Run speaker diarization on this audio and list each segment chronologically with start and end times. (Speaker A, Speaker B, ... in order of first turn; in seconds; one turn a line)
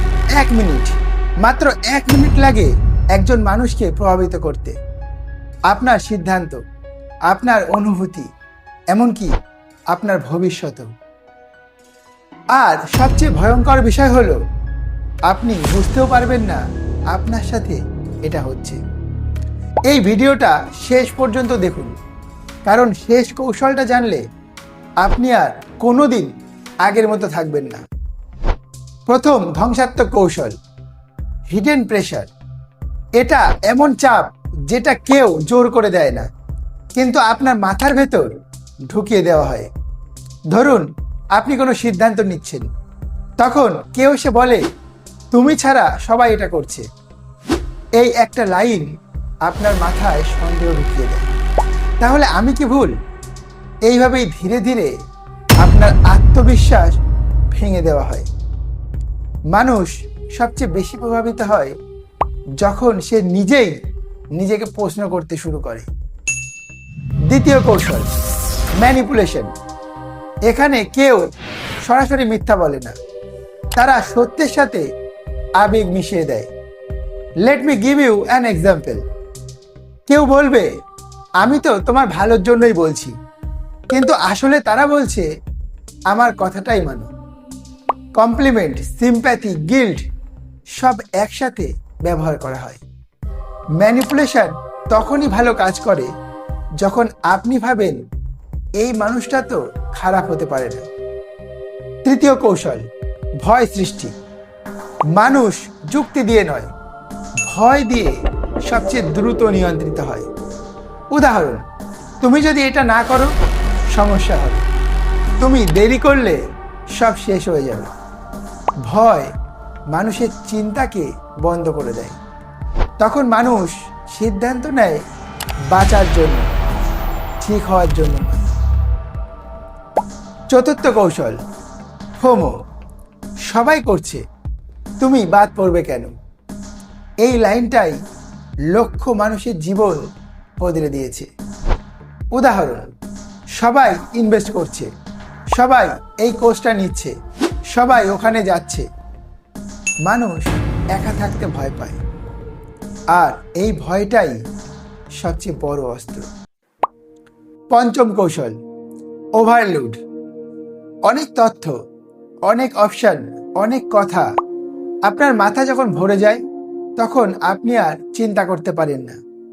Speaker A: 0.4-4.8
Speaker A: 5.7-6.6
Speaker A: 7.3-8.3
Speaker A: 8.9-9.3
Speaker A: 9.9-10.9
Speaker A: 12.6-14.4
Speaker A: 15.3-18.8
Speaker A: 19.9-21.9
Speaker A: 22.7-24.2
Speaker A: 25.0-26.3
Speaker A: 26.9-27.8
Speaker A: 29.1-30.6
Speaker A: 31.5-32.3
Speaker A: 33.2-36.3
Speaker A: 37.0-38.3
Speaker A: 38.9-39.7
Speaker A: 40.5-42.7
Speaker A: 43.4-44.6
Speaker A: 45.3-46.9
Speaker A: 48.0-48.9
Speaker A: 49.5-51.3
Speaker A: 52.0-53.0
Speaker A: 53.9-54.9
Speaker A: 55.6-57.0
Speaker A: 57.5-58.3
Speaker A: 59.5-61.8
Speaker A: 62.6-63.8
Speaker A: 64.4-65.9
Speaker A: 67.3-68.1
Speaker A: 68.8-69.5
Speaker A: 70.5-71.3
Speaker A: 71.8-73.0
Speaker A: 73.8-74.9
Speaker A: 75.6-76.5
Speaker A: 77.4-79.0
Speaker A: 80.1-80.7
Speaker A: 81.4-83.1
Speaker A: 83.9-85.3
Speaker A: 86.1-87.1
Speaker A: 88.2-90.0
Speaker A: 90.8-92.8
Speaker A: 93.8-96.1
Speaker A: 96.8-98.0
Speaker A: 98.8-100.9
Speaker A: 102.0-102.9
Speaker A: 103.4-104.1
Speaker A: 105.2-106.7
Speaker A: 107.5-108.1
Speaker A: 108.7-110.3
Speaker A: 111.1-111.6
Speaker A: 112.2-113.3
Speaker A: 113.9-114.7
Speaker A: 115.4-116.4
Speaker A: 117.0-117.9
Speaker A: 118.8-119.3
Speaker A: 119.9-122.2
Speaker A: 123.0-125.0
Speaker A: 125.7-126.5
Speaker A: 127.4-128.4
Speaker A: 130.5-131.4
Speaker A: 132.2-132.5
Speaker A: 133.5-134.2
Speaker A: 135.0-136.1
Speaker A: 137.2-138.0
Speaker A: 138.7-140.1
Speaker A: 140.6-141.3
Speaker A: 142.3-142.9
Speaker A: 143.6-144.9
Speaker A: 145.6-147.1
Speaker A: 147.7-148.9
Speaker A: 150.1-152.0
Speaker A: 153.1-154.4
Speaker A: 155.2-156.3
Speaker A: 157.7-158.6
Speaker A: 159.4-160.0
Speaker A: 161.1-161.8
Speaker A: 162.5-164.3
Speaker A: 165.1-166.4
Speaker A: 167.0-169.2